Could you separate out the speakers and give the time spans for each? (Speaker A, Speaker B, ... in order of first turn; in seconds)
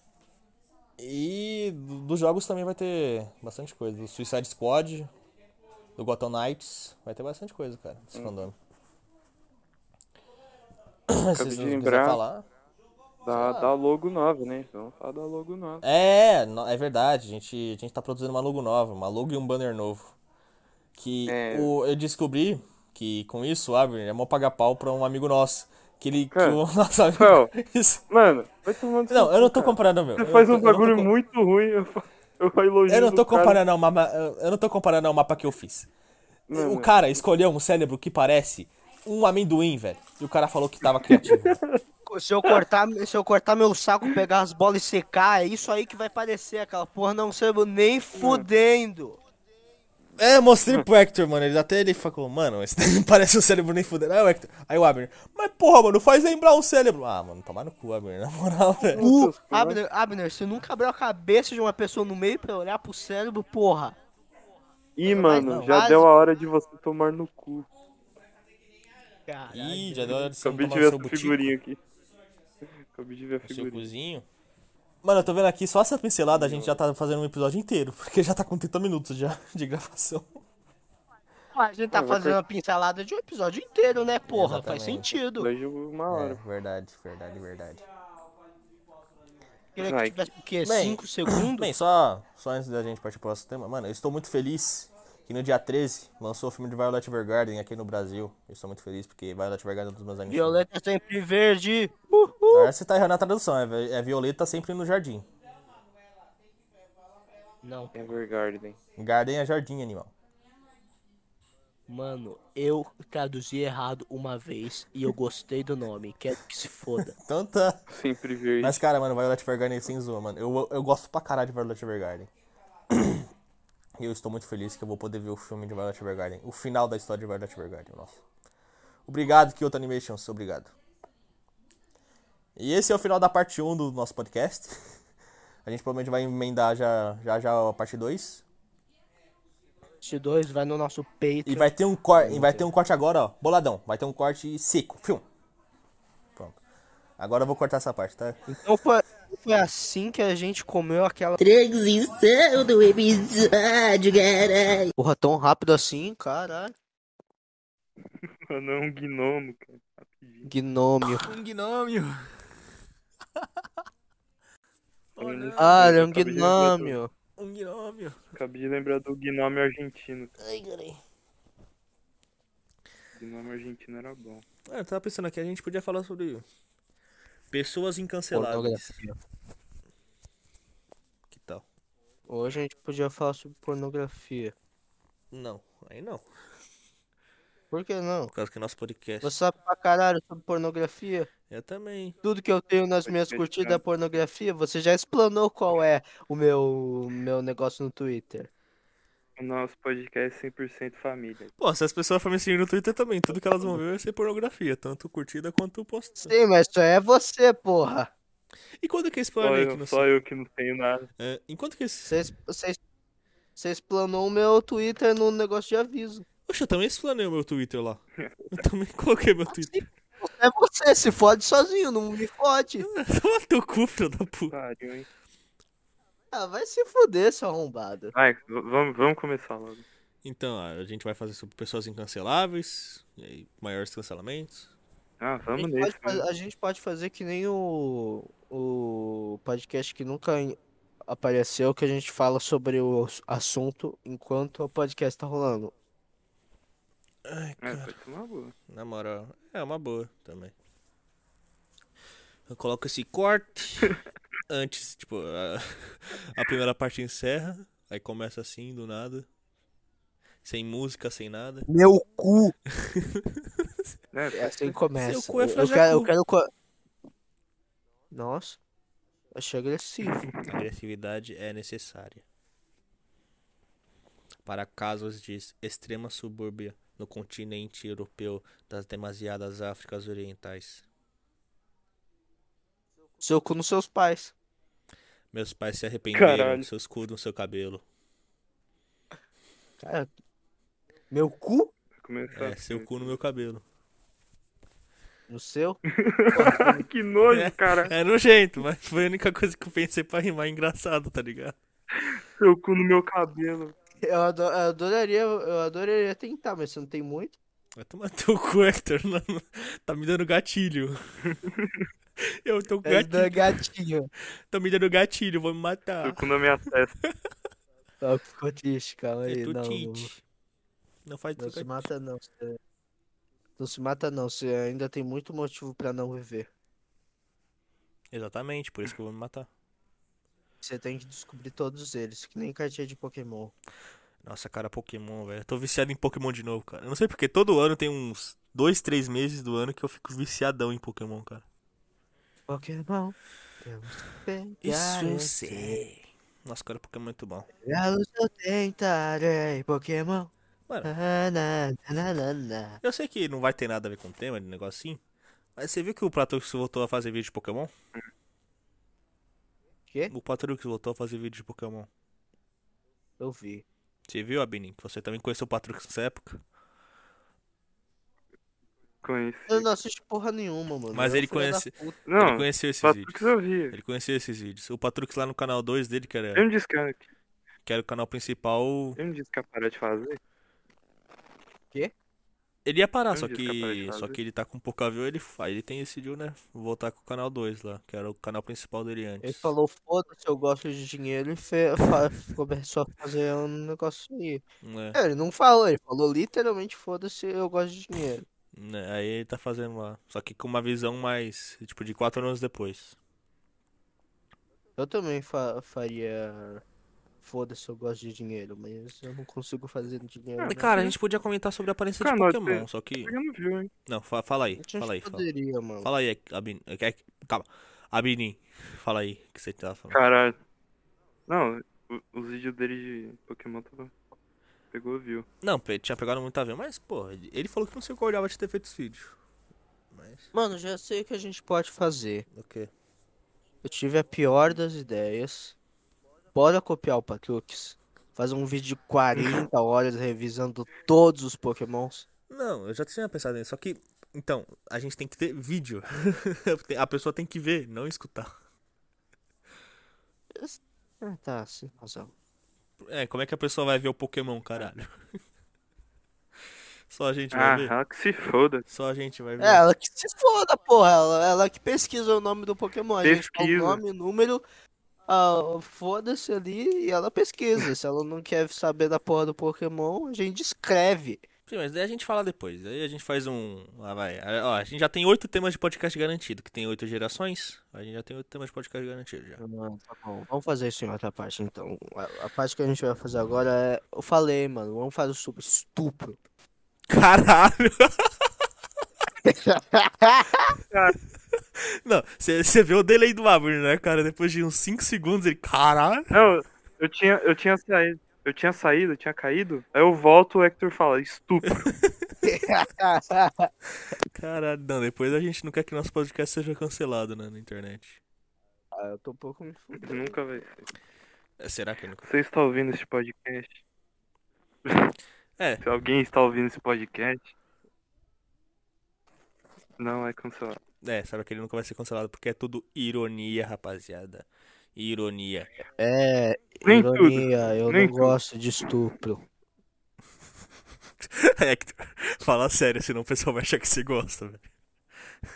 Speaker A: 1.0-5.1, 6.0-8.5, 11.1-12.4, 13.3-13.7, 15.8-20.1, 20.9-28.0, 29.1-31.1, 32.9-35.9, 36.5-41.6, 50.2-59.0, 65.3-65.8, 69.5-71.5, 73.4-74.2, 75.0-80.4, 84.3-85.1, 86.1-87.8, 90.6-100.6, 102.5-105.2, 109.0-110.1, 117.0-117.8, 118.6-122.3, 122.9-123.3, 124.0-128.2, 129.1-130.7, 132.6-134.8, 135.6-138.4, 141.4-145.2, 147.2-148.5, 151.4-154.9, 161.0-162.3, 163.4-163.6, 165.2-166.0, 167.4-168.2, 170.4-171.0, 174.7-176.4, 177.5-179.0, 181.3-181.6, 185.3-186.2, 188.3-189.3, 191.5-192.2, 201.6-206.3, 208.8-210.1, 211.2-212.2, 216.5-219.8, 222.8-224.5, 230.2-234.7, 247.2-247.9, 248.7-250.5, 252.5-254.0, 254.5-259.3, 260.4-261.7, 262.7-263.7, 264.9-266.1, 270.4-272.2, 274.4-280.9, 285.3-287.8, 292.3-293.6, 297.3-301.6, 307.8-311.0, 312.2-313.6, 314.5-316.2, 319.2-320.2, 321.0-321.9, 328.1-329.5, 334.2-341.4, 344.6-347.5, 352.8-355.0, 355.6-357.7, 360.1-361.9, 364.1-366.4, 370.9-376.5, 377.6-379.0, 382.6-389.5, 394.6-395.0, 398.5-402.9, 410.4-413.1, 413.9-415.2, 415.8-420.0, 425.4-429.2, 429.9-430.3, 432.3-432.7, 442.3-448.3, 452.8-454.9, 456.9-457.7, 458.7-459.6, 471.5-479.4, 486.9-488.1, 491.7-496.1, 501.6-502.1, 504.1-508.0, 511.4-512.1, 515.4-515.6, 520.8-525.5, 531.0-534.4
Speaker B: 11.3-12.2, 13.2-15.8, 21.3-21.7, 26.3-26.6, 27.1-27.5, 28.1-33.6, 36.5-37.2, 41.0-41.8, 48.1-48.5, 58.8-59.8, 65.0-67.7, 70.4-71.8, 72.9-73.9, 76.3-76.8, 81.9-82.4, 85.4-86.4, 89.8-90.3, 107.9-108.8, 117.9-118.8, 158.5-160.5, 165.2-167.0, 168.3-170.3, 173.1-174.4, 193.1-193.8, 199.4-201.5, 209.4-211.1, 224.5-225.1, 228.1-229.8, 235.2-236.2, 247.6-248.5, 264.1-264.8, 286.1-286.7, 292.0-293.1, 295.9-297.9, 302.1-303.7, 311.3-311.7, 316.0-316.9, 369.0-369.7, 372.1-373.8, 376.4-377.1, 379.0-380.2, 383.1-384.2, 410.4-410.9, 412.0-413.7, 419.9-420.4, 421.3-423.9, 424.7-425.2, 457.3-458.6, 463.0-463.8, 490.7-491.0, 496.1-501.7, 509.8-510.7, 512.0-513.6, 514.6-514.9, 515.6-517.3, 519.8-520.6, 526.6-528.1
Speaker C: 42.1-49.2, 59.0-64.0, 65.0-66.1, 69.3-70.3, 81.5-85.5, 89.8-91.7, 100.3-102.7, 107.6-108.1, 111.9-117.1, 140.0-142.7, 148.5-151.4, 154.9-156.7, 160.4-161.3, 165.6-167.1, 178.3-179.1, 182.3-184.5, 187.7-188.3, 189.2-191.3, 192.2-198.5, 206.2-208.1, 212.1-212.8, 213.6-216.2, 219.5-222.9, 226.3-228.1, 235.5-245.7, 261.7-262.5, 264.3-266.5, 268.1-268.6, 269.3-270.3, 283.2-284.3, 289.8-290.1, 291.1-291.7, 295.3-296.9, 304.0-307.4, 312.9-314.1, 318.0-320.1, 321.4-322.6, 323.6-326.5, 330.6-333.5, 342.5-345.8, 347.6-350.3, 350.8-352.8, 363.2-363.6, 369.5-372.0, 389.2-394.4, 394.9-398.2, 404.8-406.6, 407.2-410.7, 414.6-415.9, 430.3-432.2, 433.6-435.6, 436.3-442.1, 450.4-452.1, 459.4-464.4, 465.1-471.2, 479.4-486.2, 489.2-490.5, 502.2-503.5, 508.7-510.2, 525.8-529.2